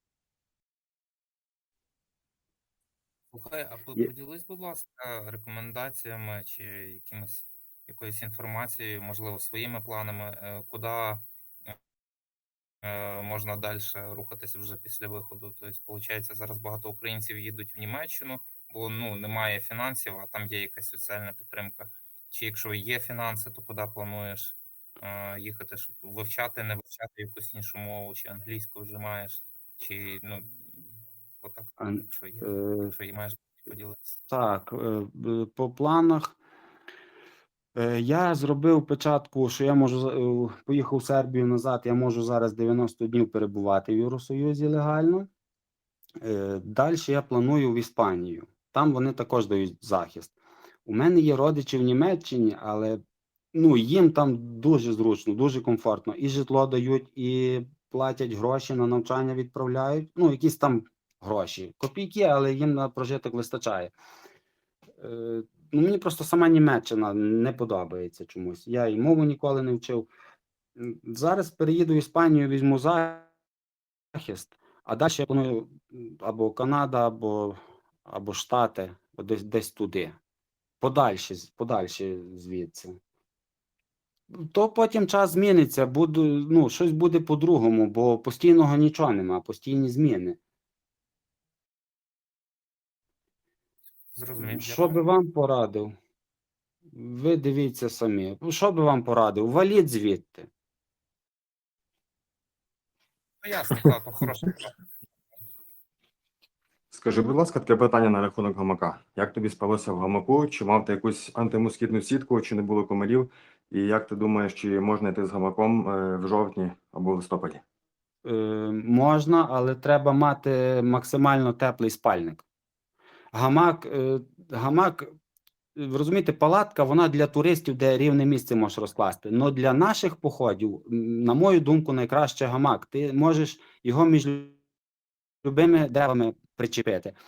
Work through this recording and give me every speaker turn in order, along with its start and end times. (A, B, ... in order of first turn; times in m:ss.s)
0:03.3-0:11.2 A
0:12.8-0:34.2 A
0:31.8-0:32.9 B
0:34.3-0:36.3 B
0:37.7-0:45.3 B
0:46.2-0:50.3 B
0:50.8-0:53.0 B
0:53.5-1:03.9 B
1:05.0-1:10.1 B
1:10.8-1:13.3 B
1:14.1-1:20.2 B
1:20.8-1:23.0 B
1:24.3-1:30.4 B
1:34.1-1:35.0 A
1:34.4-1:35.9 B
1:36.9-1:40.5 B
1:43.4-1:44.8 A
1:46.9-1:57.6 C
1:58.2-2:02.4 B
2:03.3-2:05.1 B
2:05.8-2:14.6 B
2:15.4-2:17.1 B